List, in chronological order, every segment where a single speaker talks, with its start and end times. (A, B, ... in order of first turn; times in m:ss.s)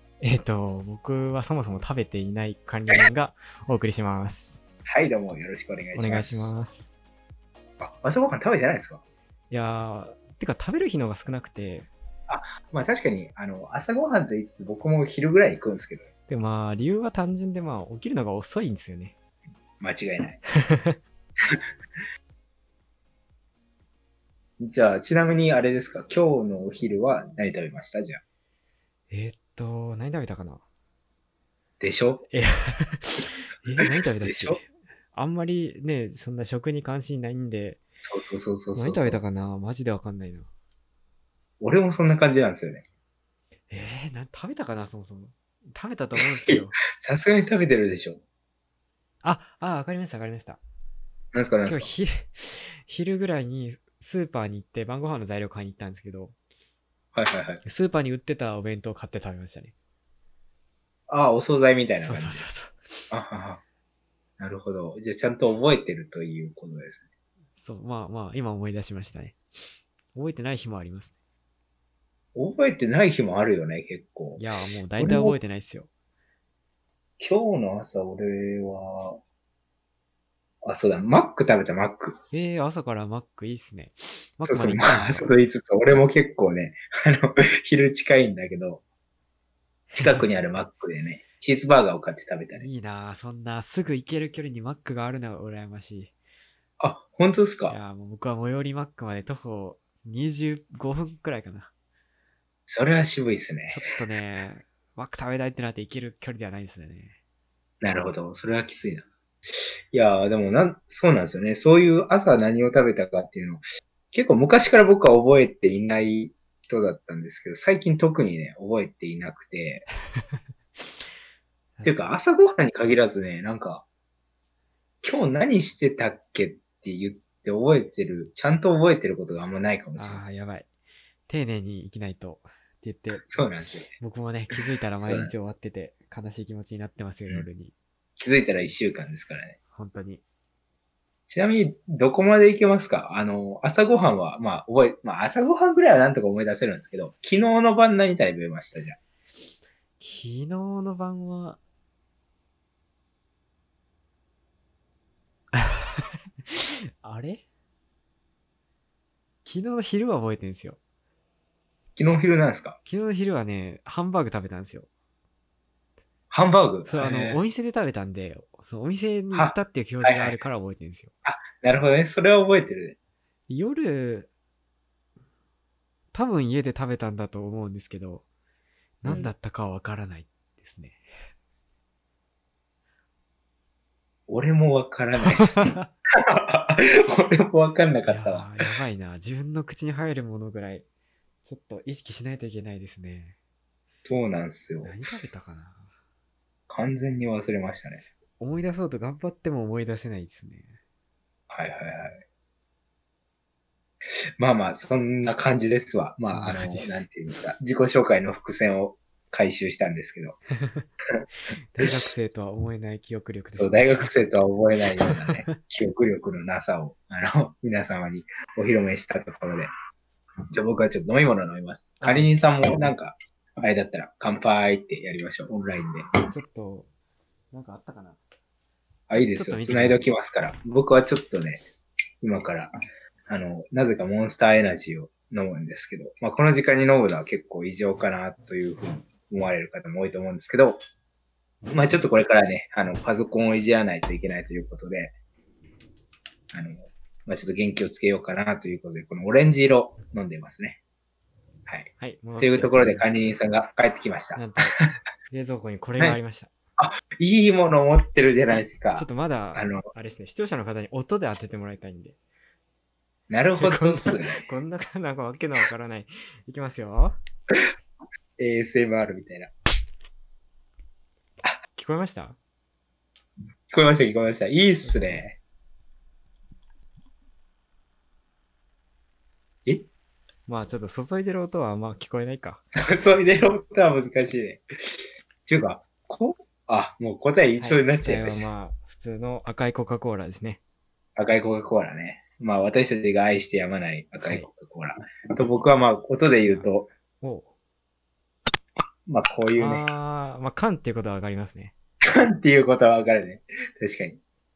0:00.2-0:04.6 A
0:04.9-0:06.5 B
0:06.0-0:06.9 A
0:07.8-0:09.0 B
0:09.5-0:11.9 A
0:12.3-0:16.1 B
0:16.3-0:19.2 A
0:19.8-0:20.4 B
0:20.6-0:21.0 A
0:24.6-0:28.2 B
0:29.1-0:30.6 A
0:31.8-0:32.2 B
0:32.3-0:37.8 A
0:34.2-0:34.6 B
0:38.0-0:39.2 B
0:38.7-0:40.5 A
0:41.6-0:42.8 B
0:43.7-0:46.7 A
0:46.5-0:48.2 B
0:49.2-0:50.6 A
0:51.3-0:51.9 B
0:51.7-0:56.3 A
0:57.1-0:57.6 B
0:57.6-0:59.7 A
1:01.1-1:02.5 B
1:02.0-1:03.0 A
1:03.1-1:03.6 B
1:04.4-1:07.0 B
1:07.6-1:09.4 A
1:10.1-1:11.1 A
1:12.4-1:14.5 B
1:14.4-1:15.9 A
1:15.0-1:15.4 B
1:17.2-1:19.2 B
1:20.6-1:22.2 B
1:22.3-1:25.3 A
1:24.4-1:28.8 B
1:30.0-1:30.2 A
1:30.0-1:32.7 B
1:32.5-1:36.1 A
1:36.8-1:37.8 B
1:37.7-1:41.7 A
1:42.7-1:43.8 B
1:43.7-1:47.2 A
1:47.8-1:49.1 B
1:49.9-1:59.8 B
2:01.8-2:03.8 B
2:05.0-2:10.2 B
2:10.0-2:10.7 A
2:11.3-2:13.3 A
2:13.3-2:13.9 B
2:14.0-2:17.7 A
2:15.0-2:15.3 B
2:18.2-2:19.6 B
2:19.7-2:20.2 A
2:21.3-2:29.0 B
2:30.0-2:31.6 A
2:35.5-2:37.4 A
2:39.4-2:40.8 A
2:42.0-2:42.8 B
2:42.9-2:44.9 A
2:46.3-2:47.4 B
2:46.9-2:51.1 A
2:49.3-2:50.4 B
2:51.2-2:53.0 B
2:53.5-2:54.3 A
2:56.1-2:58.2 A
2:59.0-3:01.0 A
3:04.3-3:05.7 B
3:05.2-3:05.9 A
3:06.3-3:08.5 B
3:08.1-3:10.8 A
3:11.4-3:13.4 A
3:14.1-3:15.0 B
3:14.8-3:15.9 A
3:16.7-3:18.0 B
3:18.4-3:20.7 A
3:21.5-3:22.2 B
3:24.4-3:30.4 B
3:26.2-3:27.0 A
3:31.7-3:34.1 A
3:33.6-3:39.7 B
3:35.1-3:35.6 A
3:40.5-3:46.3 B
3:42.0-3:42.3 A
3:46.3-3:46.9 A
3:47.5-3:48.2 A
3:49.1-3:51.6 B
3:49.1-3:50.1 A
3:52.2-3:52.7 B
3:53.3-4:00.8 B
4:01.7-4:05.2 B
4:06.5-4:10.8 B
4:11.7-4:14.5 B
4:12.0-4:13.4 A
4:14.4-4:14.8 A
4:15.3-4:16.5 A
4:16.8-4:19.9 B
4:19.0-4:22.2 A
4:23.3-4:24.5 B
4:23.6-4:27.2 A
4:28.4-4:29.5 B
4:31.8-4:32.4 A
4:33.7-4:35.4 B
4:34.8-4:35.2 A
4:40.5-4:42.6 A
4:42.8-4:48.5 B
4:47.6-4:50.6 A
4:51.2-4:56.9 B
4:57.2-4:57.5 A
4:59.1-4:59.9 B
4:59.6-5:01.7 A
5:02.1-5:04.2 B